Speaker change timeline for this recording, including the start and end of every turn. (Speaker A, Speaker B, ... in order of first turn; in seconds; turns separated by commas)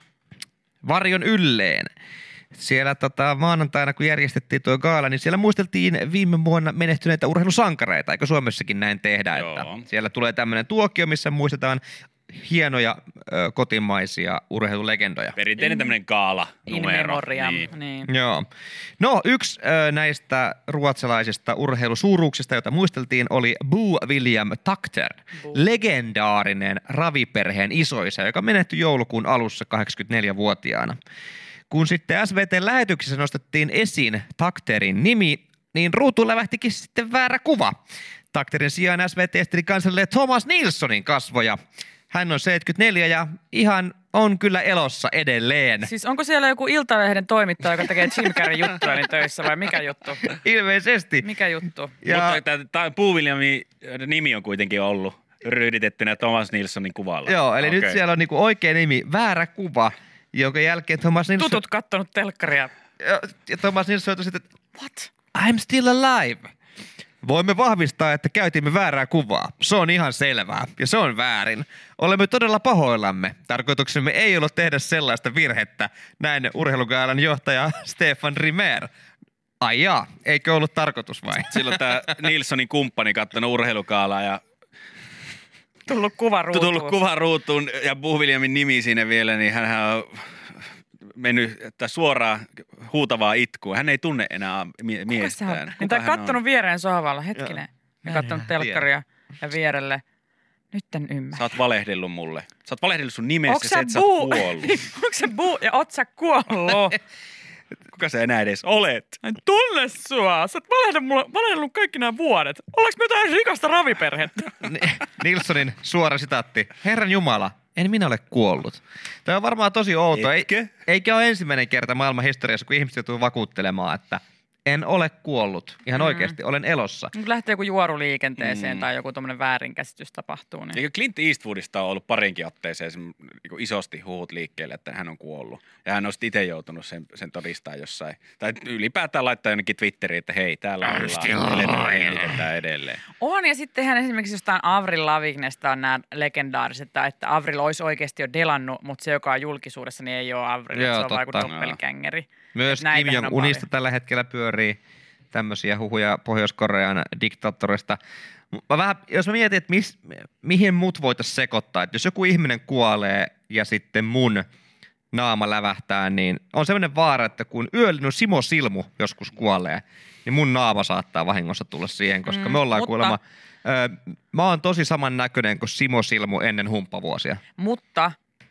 Speaker A: 0.8-1.9, Speaker A: 2.5-15.4, Speaker B: 9.3-9.8, Speaker B: 15.3-17.7, Speaker C: 15.6-15.9, Speaker C: 16.7-18.1, Speaker A: 18.1-18.5, Speaker A: 19.0-31.0, Speaker A: 31.7-37.8, Speaker A: 38.3-41.6, Speaker A: 42.1-45.9, Speaker C: 45.8-50.2, Speaker A: 50.2-51.3, Speaker C: 51.2-51.9, Speaker A: 52.0-52.4, Speaker B: 52.0-58.0, Speaker A: 57.2-61.6, Speaker C: 61.4-62.7, Speaker A: 63.0-64.5, Speaker C: 64.8-65.1, Speaker A: 65.3-66.5, Speaker A: 67.2-78.9, Speaker A: 79.6-81.8, Speaker B: 81.4-84.4, Speaker C: 85.9-87.0, Speaker B: 86.5-90.6, Speaker B: 91.2-96.4, Speaker C: 95.1-100.0, Speaker A: 98.1-98.8, Speaker C: 100.7-101.4, Speaker B: 101.3-104.8, Speaker C: 103.5-107.0, Speaker B: 107.9-109.2, Speaker C: 109.2-114.5, Speaker A: 114.6-127.1, Speaker B: 120.1-120.7, Speaker C: 126.0-126.3, Speaker C: 127.1-130.8, Speaker B: 128.4-128.8, Speaker B: 130.7-143.0, Speaker C: 143.2-153.7, Speaker A: 150.7-151.5, Speaker B: 151.4-151.8, Speaker A: 152.5-154.8, Speaker A: 155.3-158.0, Speaker A: 158.5-164.4, Speaker A: 165.1-177.4, Speaker C: 172.3-173.2, Speaker C: 177.6-178.2